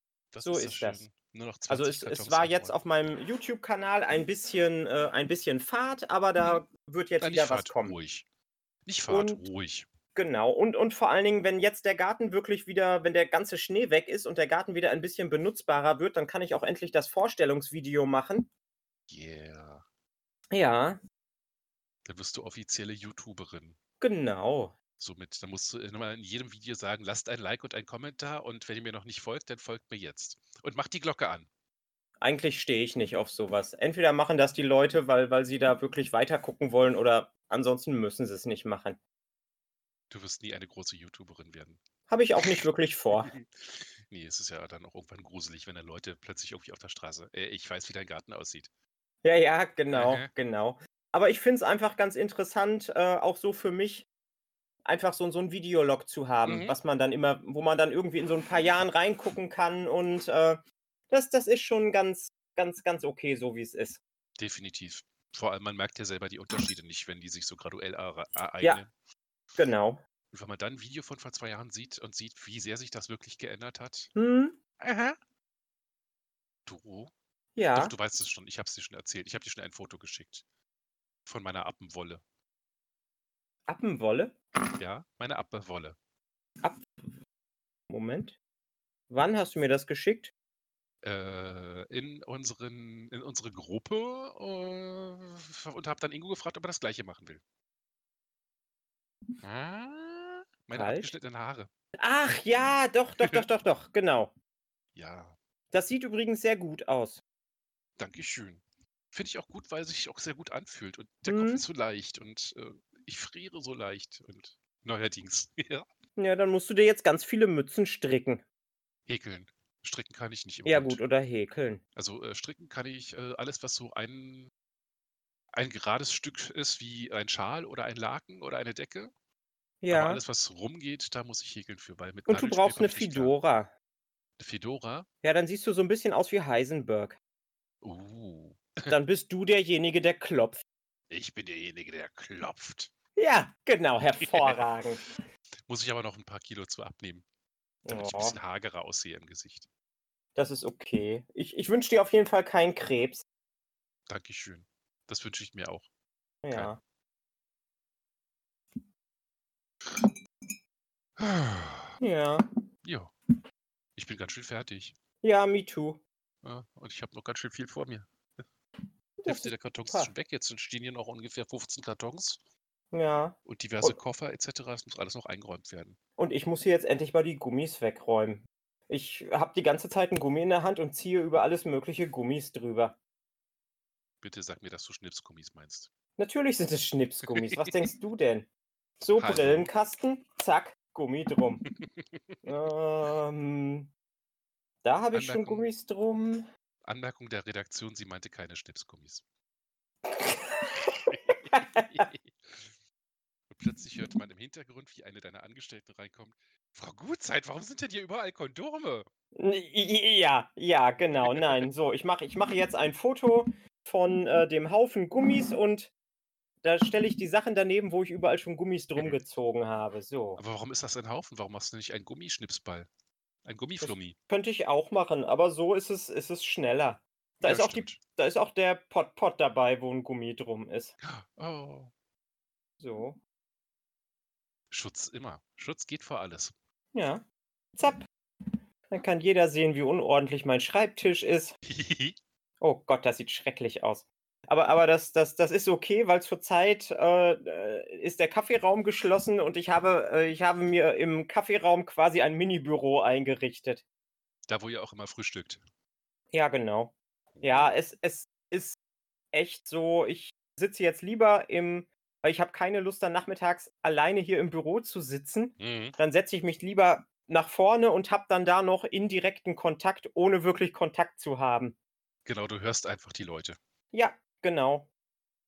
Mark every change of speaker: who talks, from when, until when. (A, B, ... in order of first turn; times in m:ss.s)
0:00.3-0:02.8 A
0:00.4-0:01.0 B
0:01.7-0:08.0 B
0:07.2-0:08.2 A
0:08.9-0:09.9 A
0:09.1-0:09.4 B
0:10.2-0:18.5 B
0:19.1-0:19.8 A
0:20.5-0:21.0 B
0:22.0-0:23.8 A
0:24.0-0:24.7 B
0:25.0-0:31.5 A
0:32.2-0:39.0 B
0:40.1-0:41.8 A
0:42.1-0:43.3 B
0:42.4-0:48.7 A
0:49.2-0:54.1 B
0:49.9-0:50.3 A
0:54.8-1:04.0 B
0:56.4-0:56.8 A
1:04.4-1:08.9 A
1:09.6-1:10.0 B
1:10.3-1:14.1 A
1:14.2-1:14.6 B
1:14.8-1:15.2 A
1:16.7-1:17.1 A
1:17.6-1:17.9 B
1:17.7-1:20.4 A
1:21.3-1:22.2 A
1:23.7-1:24.4 B
1:24.8-1:26.0 A
1:26.6-1:27.1 B
1:27.9-1:28.4 B
1:29.1-1:30.3 B
1:31.0-1:37.4 A
1:39.4-1:41.7 A
1:40.7-1:41.1 B
1:42.0-1:44.3 B
1:45.0-1:45.4 A
1:45.7-1:47.2 B
1:48.0-1:55.8 A
1:51.3-1:51.6 B
1:56.2-1:58.4 B
1:59.1-2:01.0 A
2:00.6-2:01.8 B
2:02.0-2:04.5 A
2:05.5-2:09.1 A
2:09.8-2:10.2 B
2:09.9-2:13.4 A
2:12.3-2:13.7 B
2:14.4-2:15.1 A
2:15.2-2:17.2 B
2:17.8-2:19.0 A
2:18.9-2:20.6 B
2:21.1-2:22.9 A
2:23.2-2:25.0 B
2:24.2-2:24.6 A
2:25.7-2:27.2 A
2:27.8-2:28.4 B
2:27.9-2:29.7 A
2:30.4-2:33.2 B
2:34.1-2:35.9 A
2:36.4-2:36.8 B
2:41.2-2:42.0 A
2:42.0-2:42.4 B
2:42.8-2:43.1 A
2:44.0-2:45.0 A
2:45.2-2:46.0 B
2:46.4-2:48.1 A
2:49.2-2:50.1 B
2:49.3-2:52.4 A
2:52.9-2:54.0 B
2:53.4-2:56.0 A
2:56.2-3:03.0 B
3:04.2-3:05.9 A
3:06.2-3:08.5 B
3:07.4-3:07.9 A
3:09.0-3:11.6 B
3:09.2-3:09.7 A
3:11.7-3:12.5 A
3:12.4-3:13.9 B
3:14.8-3:16.5 B
3:15.1-3:15.7 A
3:16.8-3:19.2 A
3:20.1-3:22.0 B
3:21.1-3:22.8 A
3:23.5-3:29.1 A
3:29.4-3:35.9 B
3:31.2-3:31.7 A
3:36.6-3:40.4 B
3:40.4-3:42.9 A
3:43.4-3:44.2 A
3:43.8-3:50.9 B
3:47.4-3:48.0 A
3:51.0-3:51.9 A
3:52.8-3:53.2 B
3:54.7-3:56.5 A
3:56.9-3:57.2 B
3:57.8-3:58.0 B
3:58.9-4:01.6 B
4:01.7-4:02.2 A
4:02.6-4:13.8 B
4:14.5-4:15.6 A
4:16.3-4:18.8 B
4:17.3-4:17.8 A
4:19.3-4:31.8 B
4:25.6-4:26.0 A
4:32.3-4:33.6 A
4:33.9-4:34.9 B